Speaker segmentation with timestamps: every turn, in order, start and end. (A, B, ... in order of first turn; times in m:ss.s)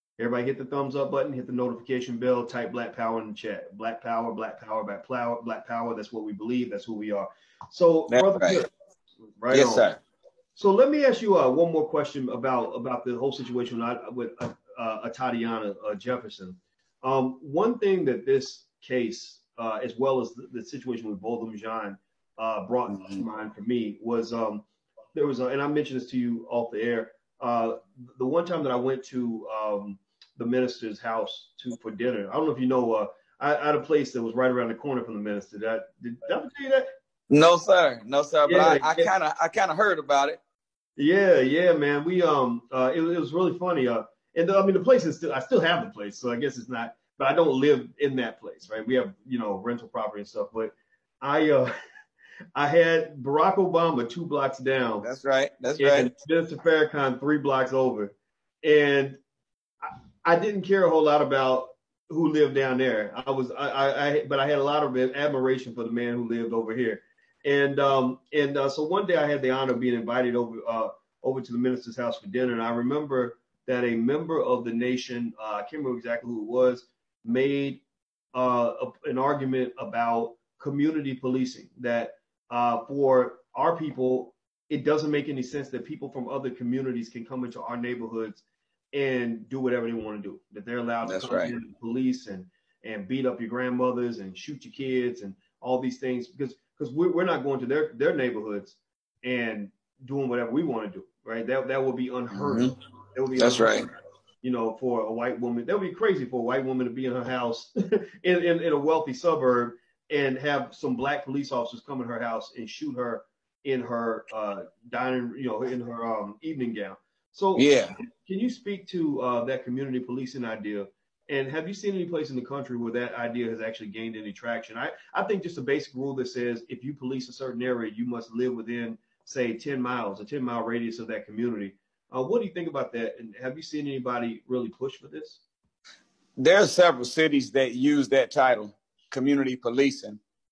0:00.2-0:08.7 A
0:08.1-0:08.6 B
0:09.4-0:09.9 A
0:09.5-0:10.0 B
0:10.5-0:36.9 A
0:22.9-0:23.2 B
0:37.3-0:40.4 B
0:38.5-0:39.1 A
0:41.0-0:51.7 A
0:52.5-0:55.1 A
0:55.0-0:56.1 B
0:55.8-0:59.2 A
0:59.8-1:17.8 A
1:18.3-1:43.8 A
1:31.0-1:31.5 B
1:42.3-1:42.7 B
1:43.4-1:43.9 B
1:44.4-2:15.4 A
1:57.6-1:57.9 B
2:16.4-2:20.2 B